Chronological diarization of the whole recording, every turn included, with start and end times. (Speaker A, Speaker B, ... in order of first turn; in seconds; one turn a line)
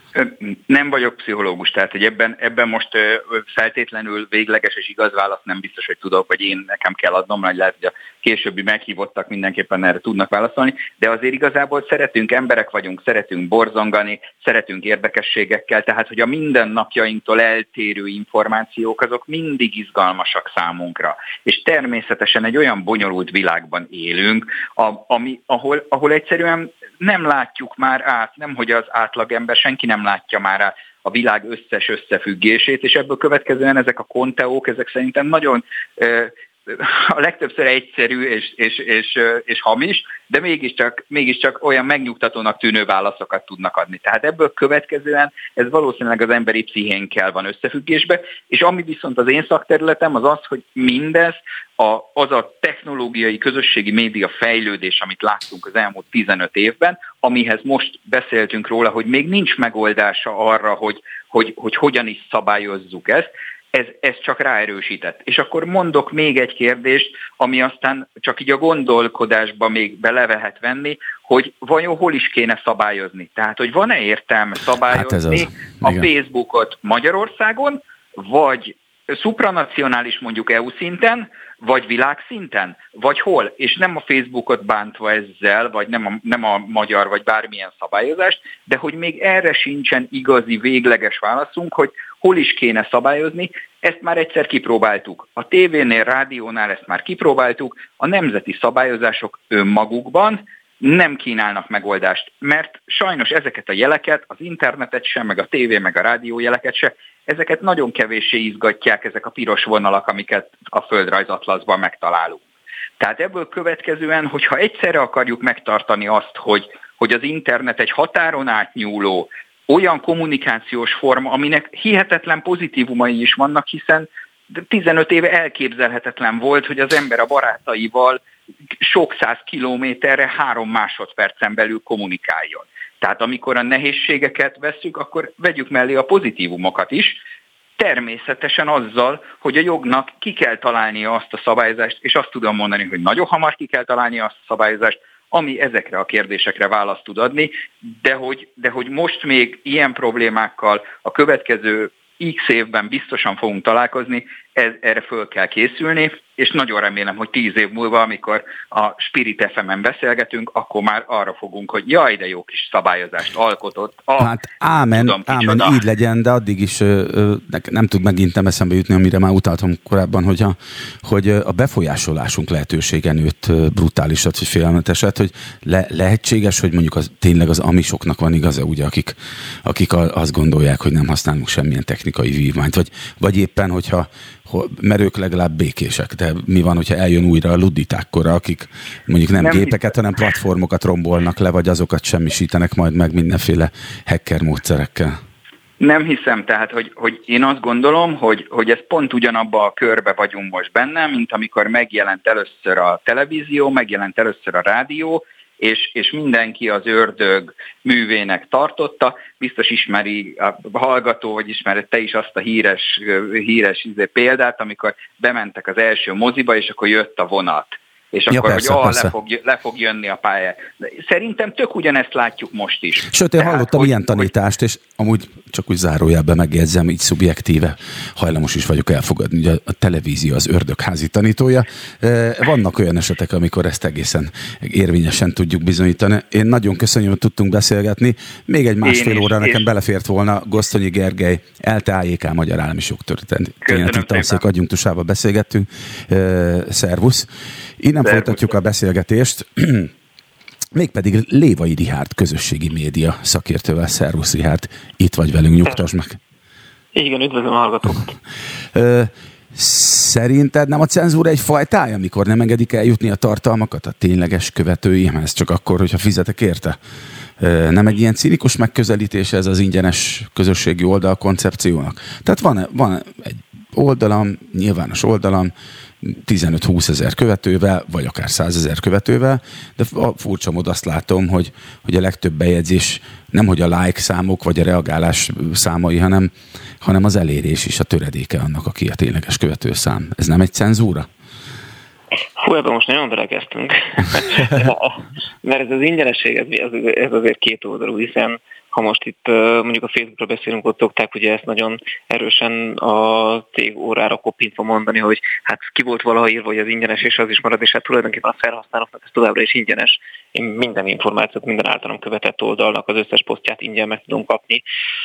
Speaker A: 0.1-112.4
Speaker B: 74.9-76.1
Speaker A: 113.0-128.2
Speaker A: 128.8-137.2
Speaker A: 137.8-164.4
Speaker B: 164.2-195.2
Speaker A: 164.9-165.8
Speaker A: 189.4-189.8
Speaker A: 195.8-224.3
Speaker B: 218.3-219.1
Speaker B: 223.1-247.3
Speaker A: 238.8-239.6
Speaker A: 243.6-244.4
Speaker B: 247.8-249.9
Speaker A: 248.0-248.4
Speaker B: 250.7-256.2
Speaker C: 256.9-258.2
Speaker B: 258.7-266.8
Speaker B: 267.4-291.1
Speaker C: 292.4-314.6